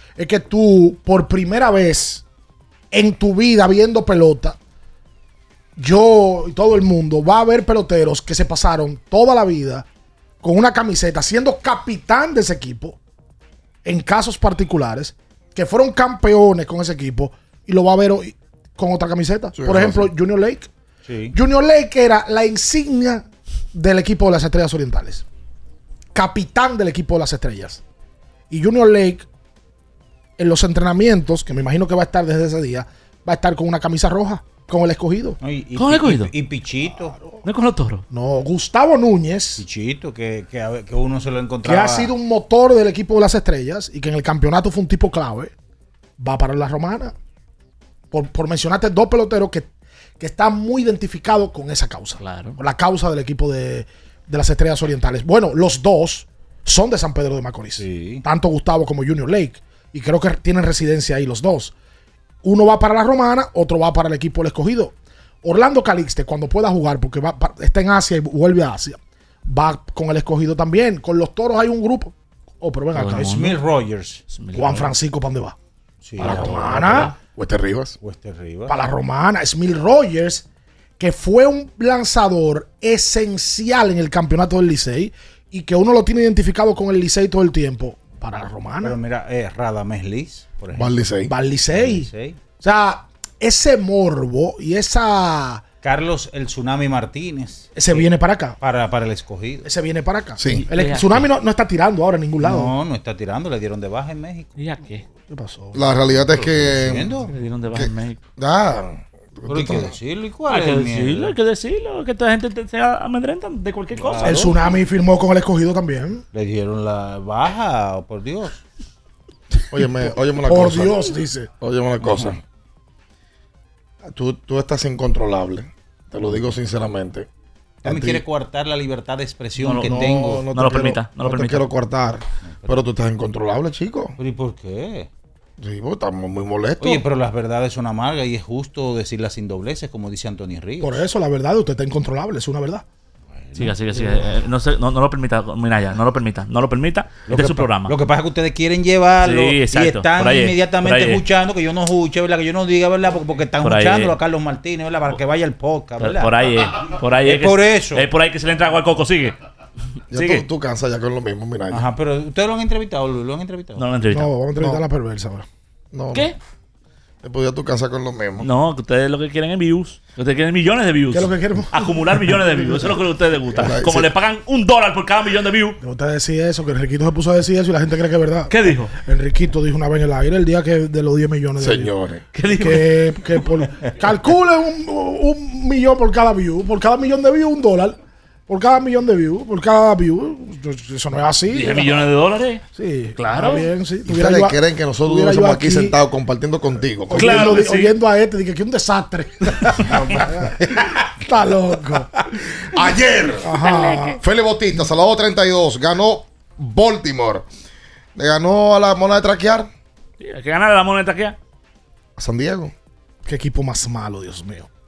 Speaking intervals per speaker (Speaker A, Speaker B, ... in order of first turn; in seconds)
Speaker A: 0.2-2.2, 2.9-4.6, 5.8-9.9, 10.4-13.0, 13.8-20.7, 21.3-25.2, 26.1-27.8, 28.5-29.3, 30.4-35.4, 37.0-37.4, 38.1-39.6, 41.6-45.5, 46.2-47.1, 48.1-61.7, 62.4-73.5, 74.5-75.6, 76.2-77.1, 78.7-80.5, 81.0-89.0, 91.3-92.1, 92.6-95.6, 97.8-98.6, 99.7-102.7, 105.2-105.8, 114.2-116.2, 120.0-121.5, 140.8-142.8, 164.1-165.5, 171.1-173.0, 175.8-181.9, 182.5-192.1, 192.7-196.0, 197.1-202.3, 203.4-204.2, 213.2-214.7
Speaker B: 19.6-20.1, 77.3-78.0, 90.8-91.3, 100.4-100.7, 105.7-107.1, 107.7-109.9, 119.7-121.0, 121.6-122.4, 124.0-127.3, 127.8-128.2, 129.8-134.2, 135.6-137.0, 160.1-161.9, 164.6-164.8, 165.9-166.3, 167.2-168.5, 173.5-174.1, 181.6-182.2, 194.1-197.6, 199.9-200.2, 202.7-207.5, 208.2-209.7, 212.2-212.7
Speaker C: 21.1-21.4, 35.4-37.2, 39.6-42.1, 57.8-58.2, 73.2-74.2, 76.0-77.2, 78.0-78.7, 88.8-91.0, 91.7-92.4, 95.8-99.7, 102.4-104.5, 106.2-107.3, 109.5-111.3, 114.0-114.6, 116.3-118.6, 127.8-130.4, 132.4-132.8, 134.2-135.1, 136.8-141.0, 143.3-144.4, 147.3-158.1, 161.7-163.8
Speaker D: 35.8-36.3, 37.5-38.0, 52.2-52.6, 73.0-73.6, 74.3-75.0, 100.5-101.2, 104.6-105.0, 107.3-108.2, 110.5-114.4, 129.6-131.6, 143.6-147.9, 149.2-151.2, 153.6-154.2, 156.0-159.4, 160.1-160.4, 163.8-164.3, 168.4-175.8, 178.5-178.9, 182.3-182.9, 191.5-192.6, 193.2-193.7, 197.1-197.9, 210.2-211.4